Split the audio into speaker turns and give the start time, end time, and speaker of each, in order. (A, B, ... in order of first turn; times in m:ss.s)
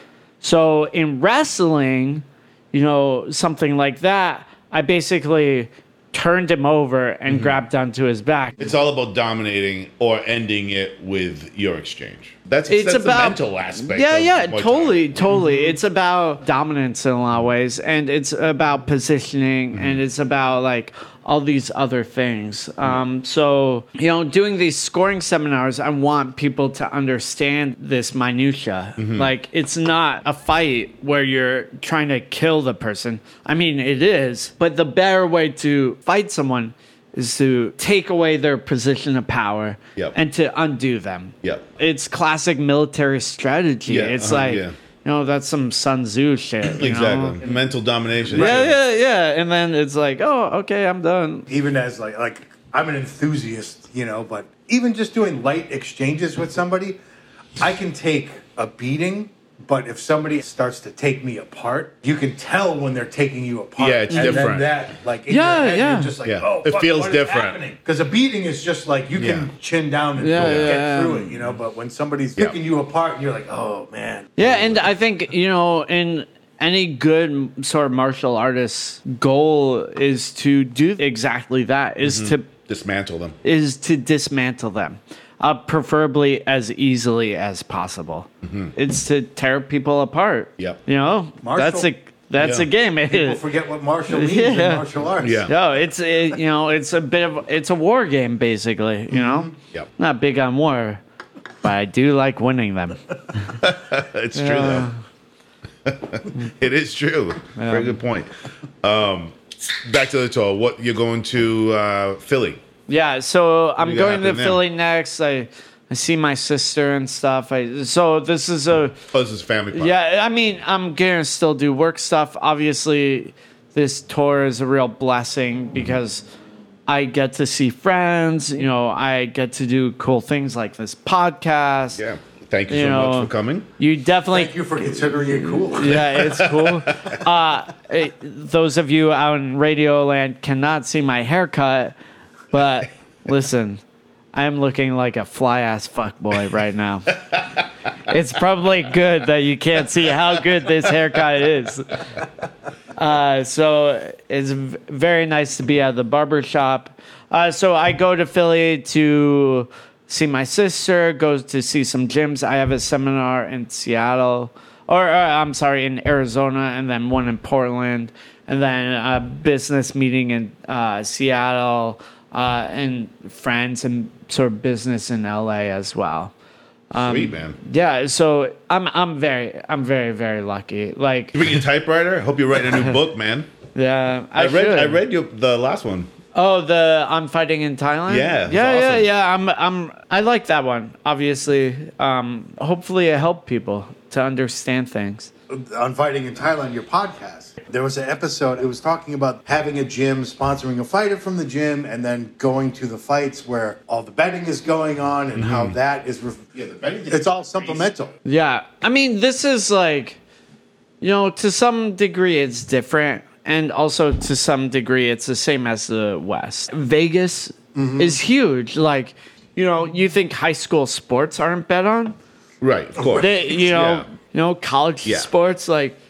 0:00.4-0:08.6 A
0:07.3-0:07.5 B
0:08.6-0:15.5 B
0:12.7-0:47.4 A
0:19.7-0:20.0 B
0:29.0-0:29.3 B
0:43.9-0:44.7 B
0:46.7-0:48.8 B
0:48.3-0:51.5 A
0:51.5-0:57.0 C
0:57.6-1:14.4 C
1:03.8-1:04.7 B
1:04.1-1:04.4 A
1:05.3-1:06.1 A
1:06.2-1:07.6 B
1:09.2-1:09.5 B
1:10.2-1:11.4 A
1:10.4-1:10.8 B
1:14.4-1:22.5 A
1:14.4-1:14.9 B
1:22.0-1:23.4 B
1:23.4-1:33.4 A
1:28.4-1:28.7 B
1:31.4-1:31.9 C
1:32.4-1:32.7 B
1:33.1-1:35.4 C
1:34.1-1:34.8 A
1:35.2-1:35.5 B
1:35.4-1:41.0 A
1:39.1-1:39.5 C
1:41.6-1:43.6 A
1:43.6-1:44.9 B
1:44.3-1:45.0 A
1:45.8-1:48.3 B
1:47.5-1:48.0 A
1:48.8-1:52.6 B
1:52.9-1:59.0 A
1:53.8-1:54.6 B
1:59.1-1:59.9 B
1:59.7-2:06.2 A
2:06.9-2:12.0 A
2:11.9-2:13.7 B
2:12.7-2:14.5 A
2:14.3-2:16.0 C
2:15.6-2:21.9 A
2:15.8-2:17.2 B
2:22.5-2:23.8 A
2:24.3-2:32.1 A
2:32.9-2:56.3 A
2:56.9-3:01.6 A
2:57.0-2:57.6 B
3:01.3-3:03.5 B
3:03.8-3:05.0 A
3:04.4-3:06.1 B
3:06.3-3:15.3 A
3:08.1-3:09.1 B
3:15.5-3:26.5 C
3:25.4-3:25.8 B
3:26.6-3:27.9 B
3:27.1-3:28.1 C
3:28.2-3:30.2 A
3:31.0-3:42.2 A
3:37.8-3:38.2 C
3:42.6-3:44.1 B
3:43.0-3:43.3 C
3:43.2-3:46.0 A